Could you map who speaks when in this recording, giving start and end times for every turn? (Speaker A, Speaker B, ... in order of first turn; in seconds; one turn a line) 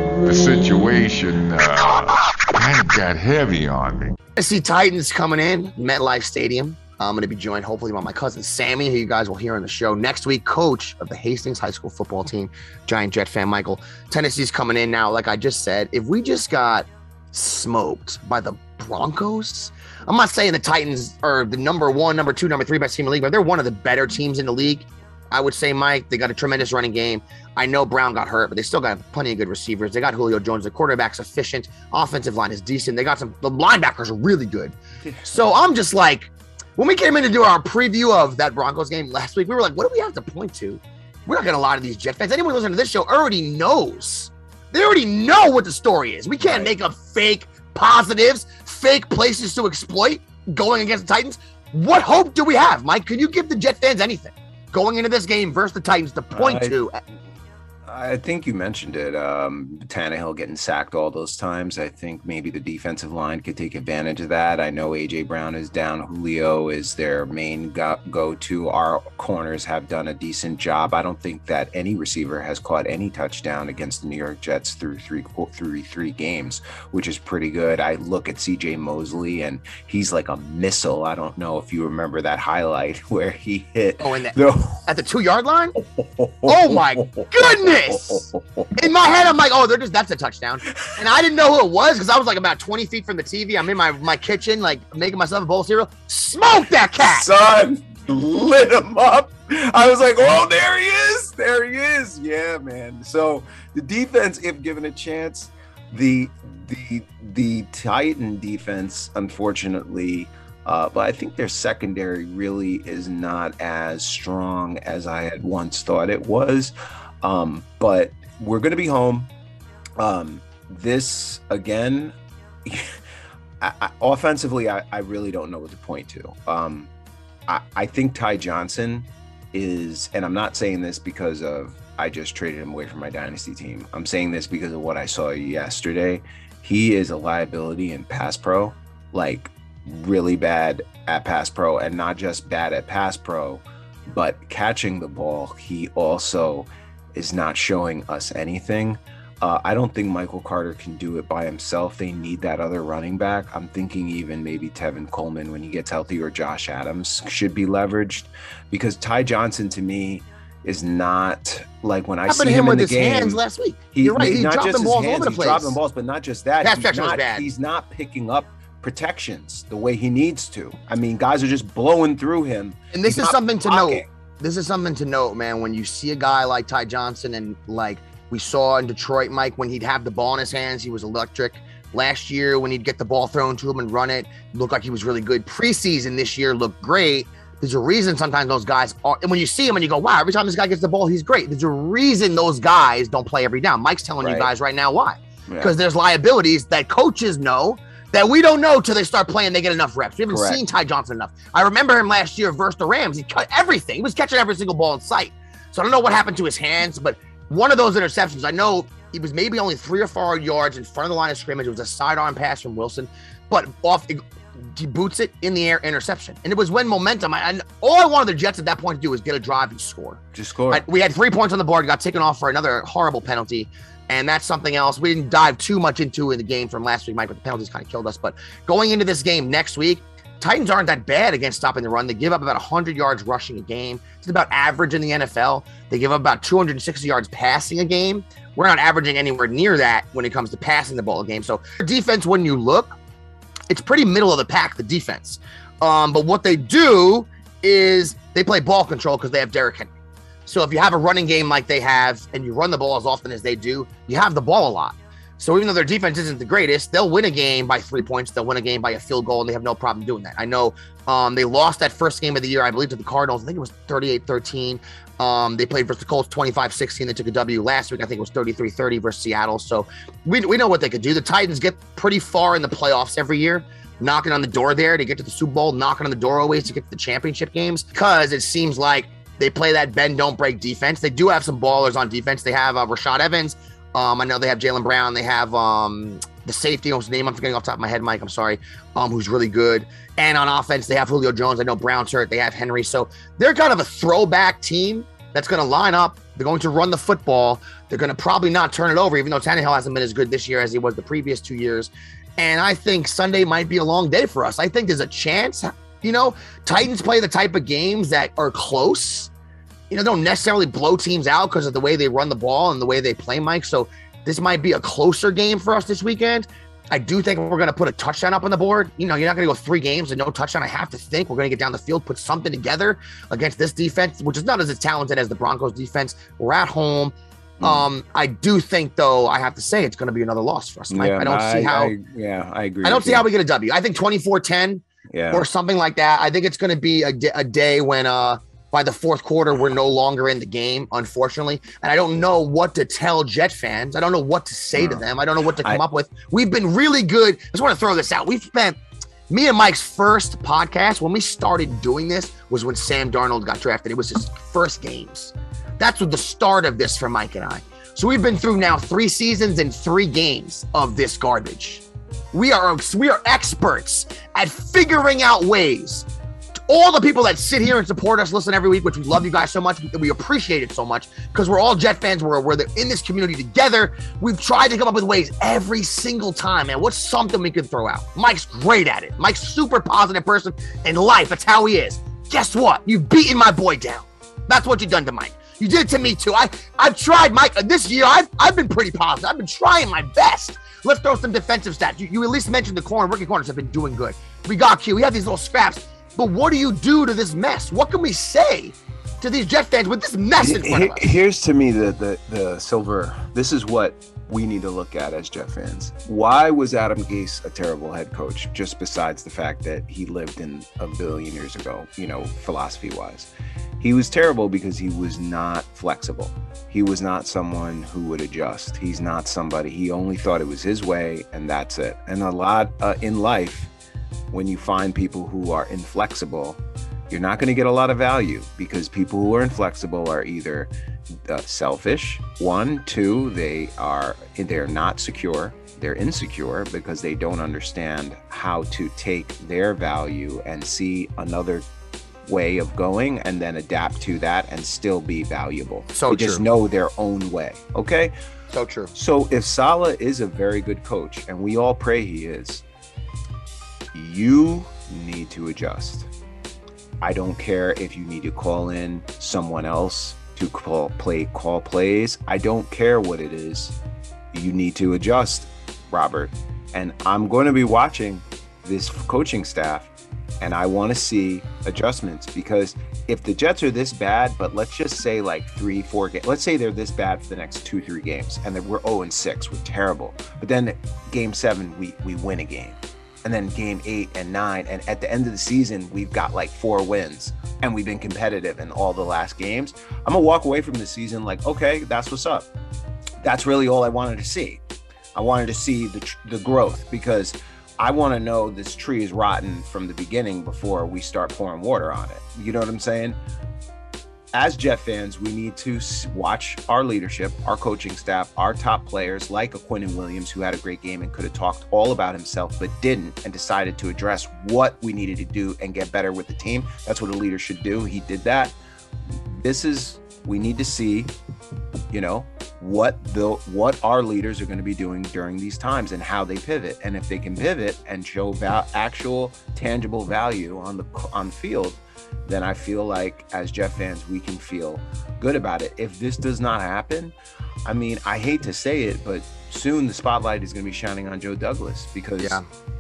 Speaker A: 0.2-4.1
Speaker B: 4.4-57.0
Speaker C: 35.0-35.3
Speaker C: 46.4-46.7
Speaker C: 56.3-56.8
Speaker C: 57.9-84.9
Speaker B: 84.0-85.8
Speaker C: 85.8-88.7
Speaker B: 86.5-97.3
Speaker C: 97.0-119.3
Speaker C: 120.0-123.0
Speaker C: 123.6-126.9
Speaker C: 127.5-163.4
Speaker B: 162.3-165.8
Speaker C: 163.9-174.1
Speaker B: 166.6-167.5
Speaker B: 172.9-243.0
Speaker C: 194.2-194.5
Speaker C: 195.5-195.7
Speaker C: 200.3-200.6
Speaker C: 220.3-220.8
Speaker B: 243.7-249.9
Speaker B: 250.5-309.3
Speaker B: 309.9-331.9
Speaker C: 327.6-327.9
Speaker C: 330.9-333.3
Speaker B: 332.8-348.8
Speaker C: 335.1-335.5
Speaker C: 344.8-345.0
Speaker B: 349.3-366.1
Speaker B: 366.7-401.1
Speaker C: 400.4-413.3
Speaker C: 413.8-423.7
Speaker C: 424.3-430.7
Speaker C: 431.2-441.6
Speaker C: 442.3-448.1
Speaker B: 445.9-446.4
Speaker B: 448.5-448.9
Speaker C: 448.9-452.6
Speaker C: 453.9-456.1
Speaker C: 457.0-463.8
Speaker C: 464.3-492.5
Speaker C: 493.2-494.6
Speaker C: 495.1-503.2
Speaker C: 504.4-518.6
Speaker C: 519.3-521.1
Speaker C: 521.9-537.1
Speaker C: 537.6-542.4
Speaker B: 542.2-542.5